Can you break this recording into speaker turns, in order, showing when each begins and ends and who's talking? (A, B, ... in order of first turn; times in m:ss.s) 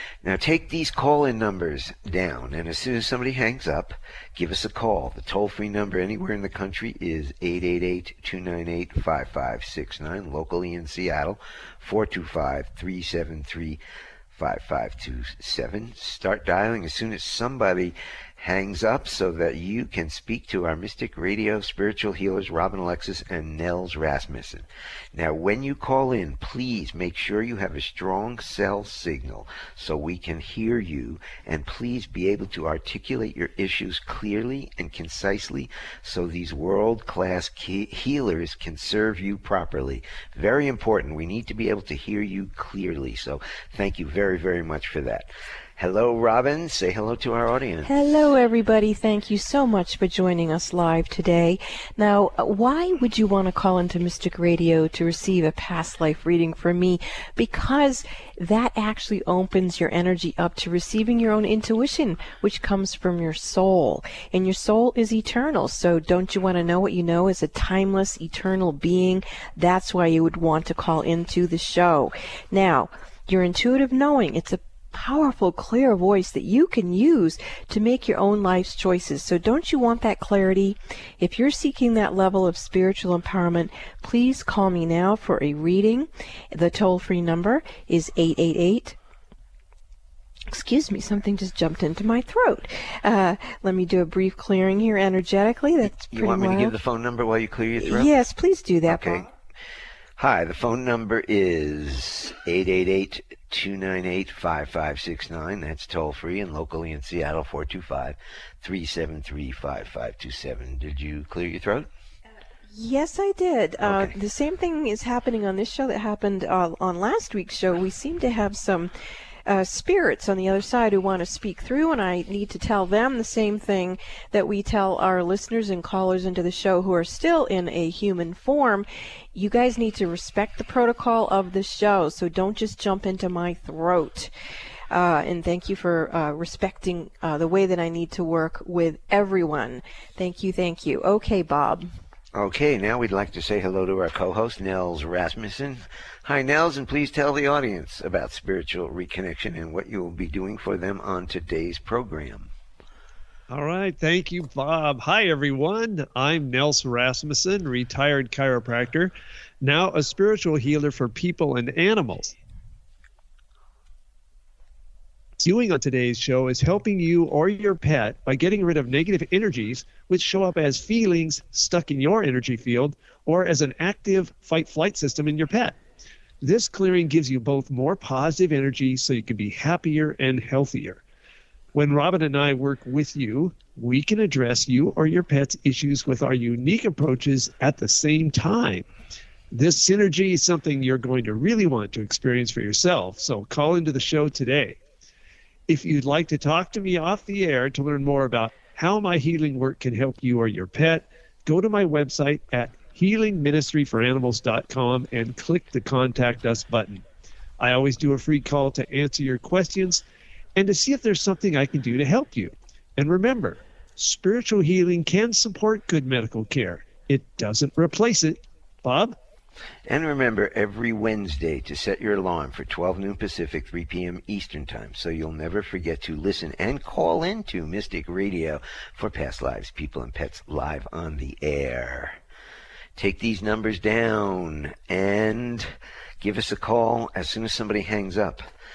0:00.2-0:13.8 A
0:14.3-0:47.9 A
0:47.8-1:29.0 B
1:30.5-1:36.8 B
1:36.0-1:38.1 A
1:37.8-1:39.3 B
1:38.9-1:39.3 A
1:40.2-1:51.9 A
1:52.7-1:58.9 B
1:53.8-1:54.2 A
1:59.5-2:14.3 B
2:14.9-2:21.9 B
2:22.3-2:32.5 A
2:33.5-2:42.4 C
2:45.4-2:55.8 C
2:56.4-3:01.0 C
3:01.7-3:08.9 C
3:09.5-3:14.8 C
3:15.7-3:27.0 C
3:27.6-3:39.2 C
3:39.9-3:52.2 A
3:53.0-3:58.5 A